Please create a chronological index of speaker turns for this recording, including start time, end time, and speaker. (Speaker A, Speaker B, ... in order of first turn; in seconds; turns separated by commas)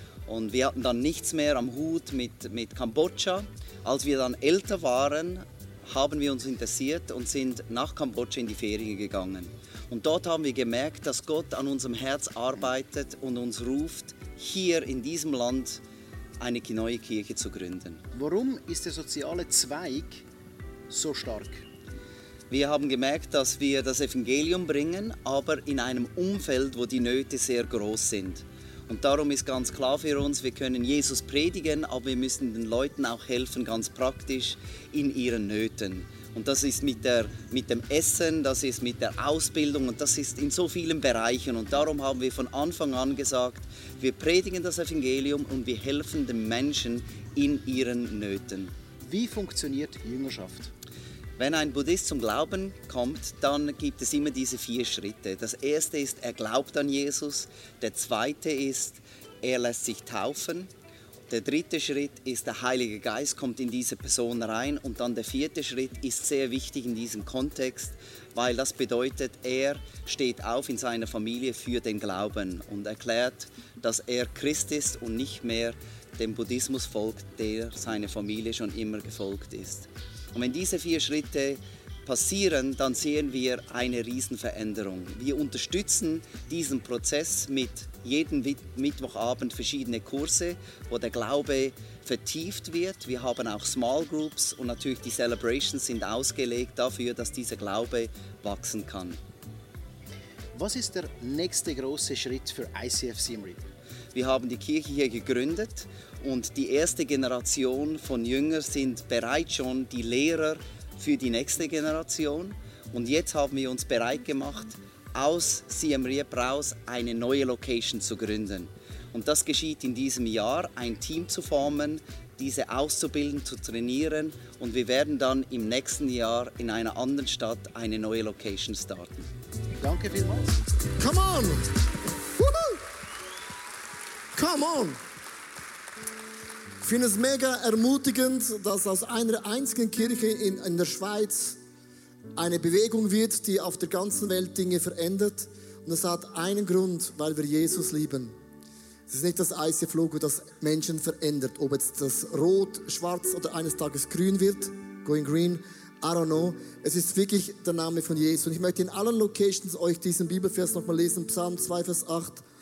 Speaker A: 0.3-15.8, Speaker A: 16.4-18.0, Speaker B: 18.1-20.2, Speaker B: 20.9-21.6, Speaker A: 22.5-48.7, Speaker B: 49.0-50.7, Speaker A: 51.4-60.7, Speaker A: 61.3-99.2, Speaker B: 100.5-103.6, Speaker A: 104.1-129.2, Speaker B: 129.8-130.6, Speaker C: 131.0-131.7, Speaker C: 132.3-132.8, Speaker C: 134.3-135.0, Speaker C: 136.8-141.6, Speaker C: 142.4-148.3, Speaker C: 149.1-162.4